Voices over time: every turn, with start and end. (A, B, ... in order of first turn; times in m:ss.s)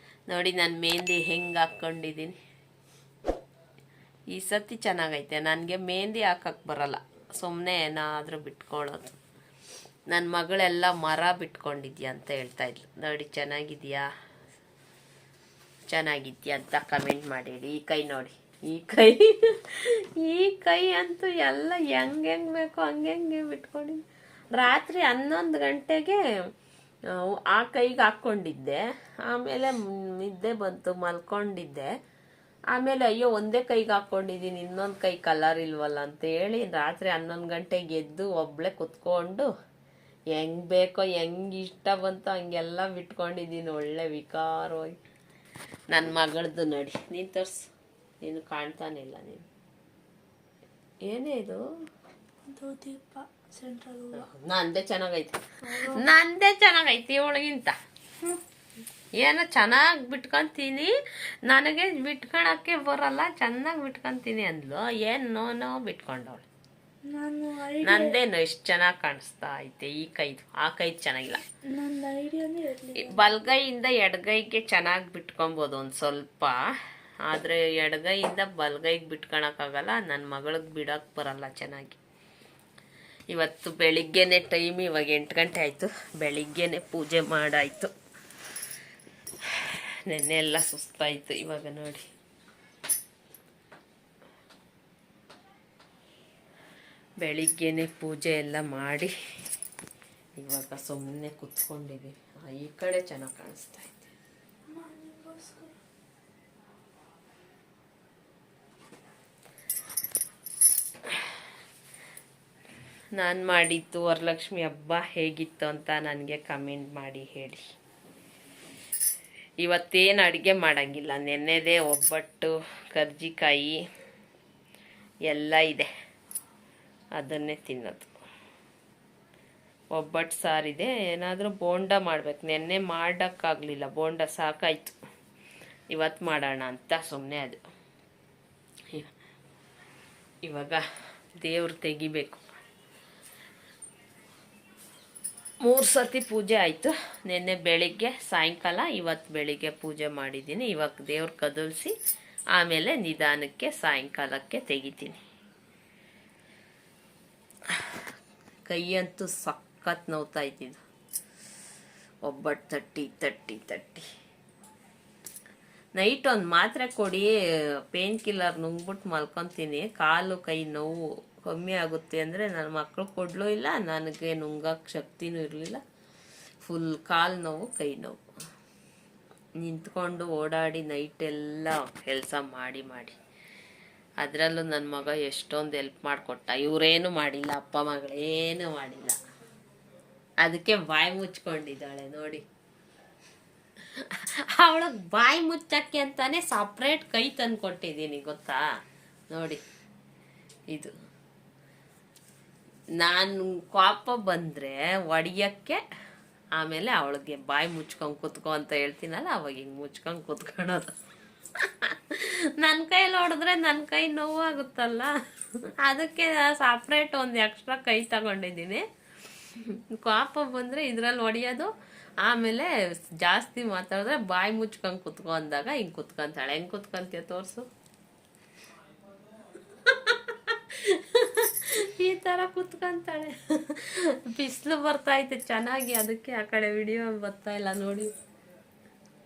0:00.3-0:02.4 A
0:04.3-0:09.1 A
0:10.1-0:14.1 A
0:15.9-0:26.2 A
0:27.1-0:31.9 A
0:32.7-0:39.5 A
0:40.3-0:45.0 A
0:45.9-0:47.6 A
0:48.2-0:49.5 A
0:51.0-0:51.6 A
0:52.5-0:54.2 B
0:54.1-0:57.8 A
0:55.6-0:56.1 B
0:59.2-1:00.9 A
1:01.4-1:06.5 A
1:07.1-1:08.2 B
1:07.8-1:11.4 A
1:11.7-1:13.2 B
1:13.0-1:16.7 A
1:17.2-1:22.0 A
1:23.3-1:27.9 A
1:29.5-1:32.1 A
1:37.2-1:39.1 A
1:40.4-1:44.1 A
1:44.7-1:45.8 B
1:53.2-1:57.6 A
1:59.6-2:03.8 A
2:05.3-2:05.9 A
2:07.2-2:08.1 A
2:09.9-2:15.0 A
2:15.9-2:17.6 A
2:20.4-2:20.8 A
2:21.4-2:22.4 A
2:25.6-2:31.9 A
2:32.5-2:35.2 A
2:38.7-2:40.8 A
2:42.2-2:44.1 A
2:46.0-2:47.3 A
2:47.9-2:55.8 A
2:56.6-2:58.2 A
2:59.6-3:03.2 A
3:04.2-3:09.2 A
3:10.4-3:12.4 A
3:14.0-3:18.6 A
3:19.3-3:19.6 A
3:23.0-3:25.8 A
3:26.6-3:30.9 A
3:31.6-3:35.1 A
3:35.8-3:38.9 A
3:39.5-3:47.7 A
3:49.8-3:58.1 A